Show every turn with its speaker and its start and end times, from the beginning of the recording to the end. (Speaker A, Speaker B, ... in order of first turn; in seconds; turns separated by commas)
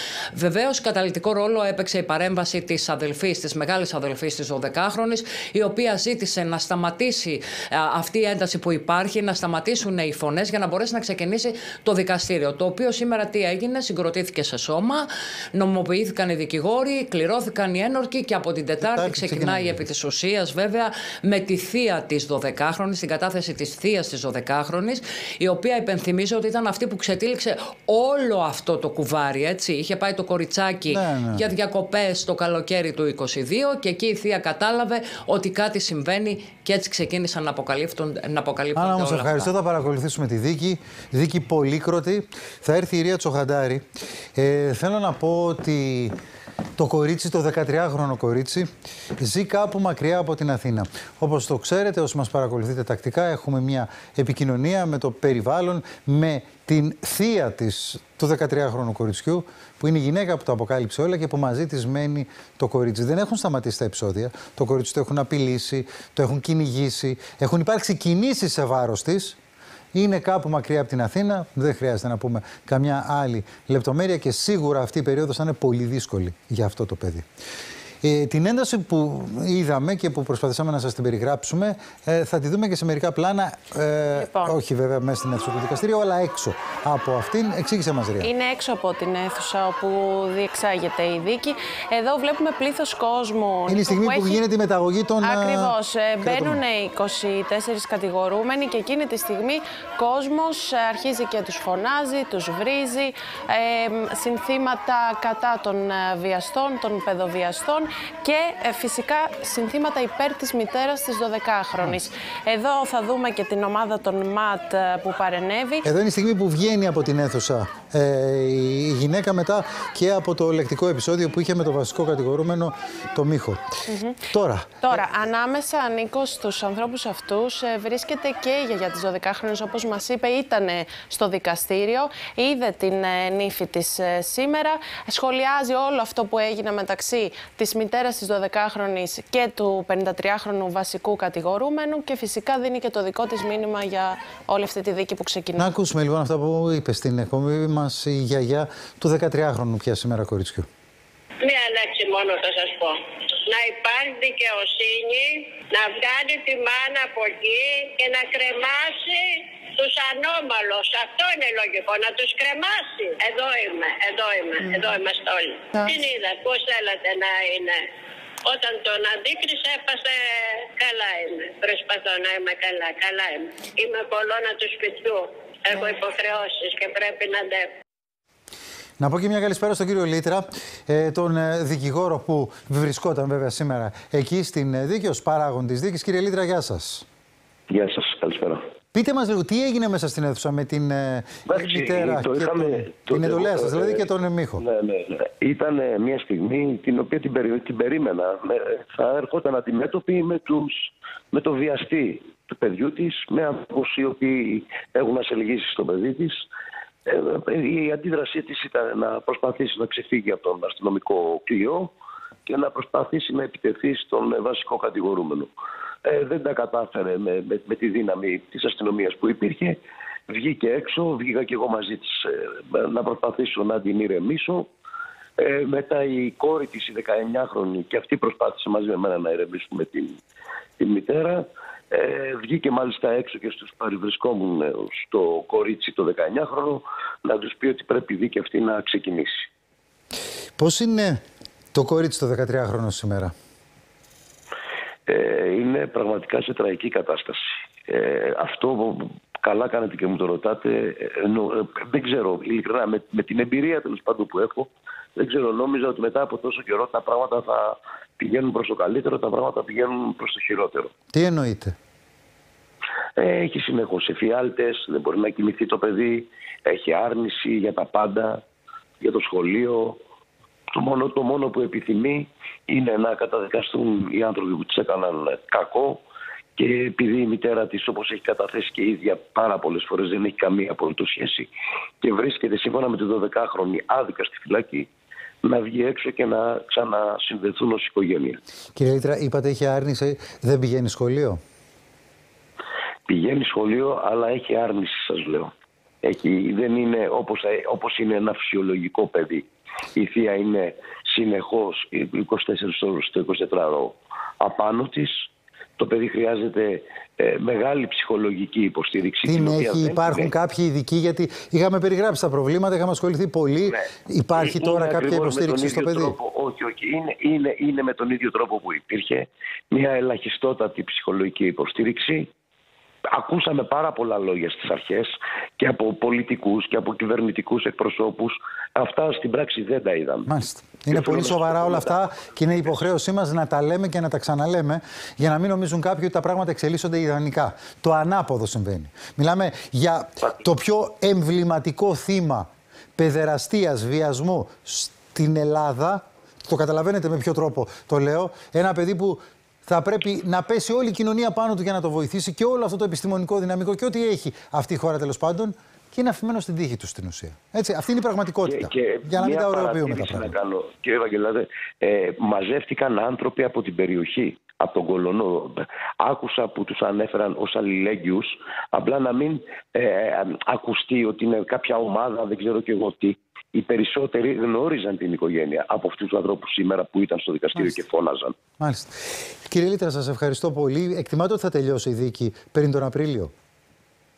Speaker A: 0.3-39.5, Speaker B: 18.8-19.8, Speaker B: 30.9-31.4, Speaker B: 38.7-46.1, Speaker B: 46.8-69.4, Speaker B: 69.9-77.2, Speaker B: 78.0-88.3, Speaker C: 84.1-84.5, Speaker C: 88.2-94.4, Speaker B: 93.7-96.6, Speaker C: 95.2-115.8, Speaker B: 115.8-123.6, Speaker C: 123.9-124.2, Speaker B: 124.3-125.0, Speaker C: 124.8-145.7, Speaker B: 145.6-150.7, Speaker D: 151.4-153.0, Speaker D: 153.5-167.8, Speaker D: 168.4-177.7, Speaker B: 179.0-187.1, Speaker E: 187.7-188.6, Speaker B: 188.9-194.6, Speaker E: 191.5-194.1, Speaker E: 194.6-206.5, Speaker E: 207.1-211.9, Speaker E: 212.4-215.5, Speaker E: 216.1-219.8, Speaker E: 220.3-224.7, Speaker E: 225.4-230.2, Speaker E: 230.8-239.5, Speaker B: 240.6-241.2, Speaker B: 241.7-243.3, Speaker E: 245.1-260.9, Speaker B: 261.1-261.7, Speaker E: 263.2-268.4, Speaker E: 269.0-270.0, Speaker E: 270.7-276.0, Speaker E: 276.6-281.5, Speaker E: 282.0-284.9, Speaker E: 285.4-288.4, Speaker B: 288.8-291.4, Speaker E: 293.1-295.5, Speaker E: 296.0-310.3, Speaker B: 309.2-316.1, Speaker E: 314.4-322.3, Speaker E: 323.1-330.3, Speaker B: 330.3-360.3, Speaker E: 330.9-332.0, Speaker E: 358.4-378.3, Speaker B: 378.6-383.3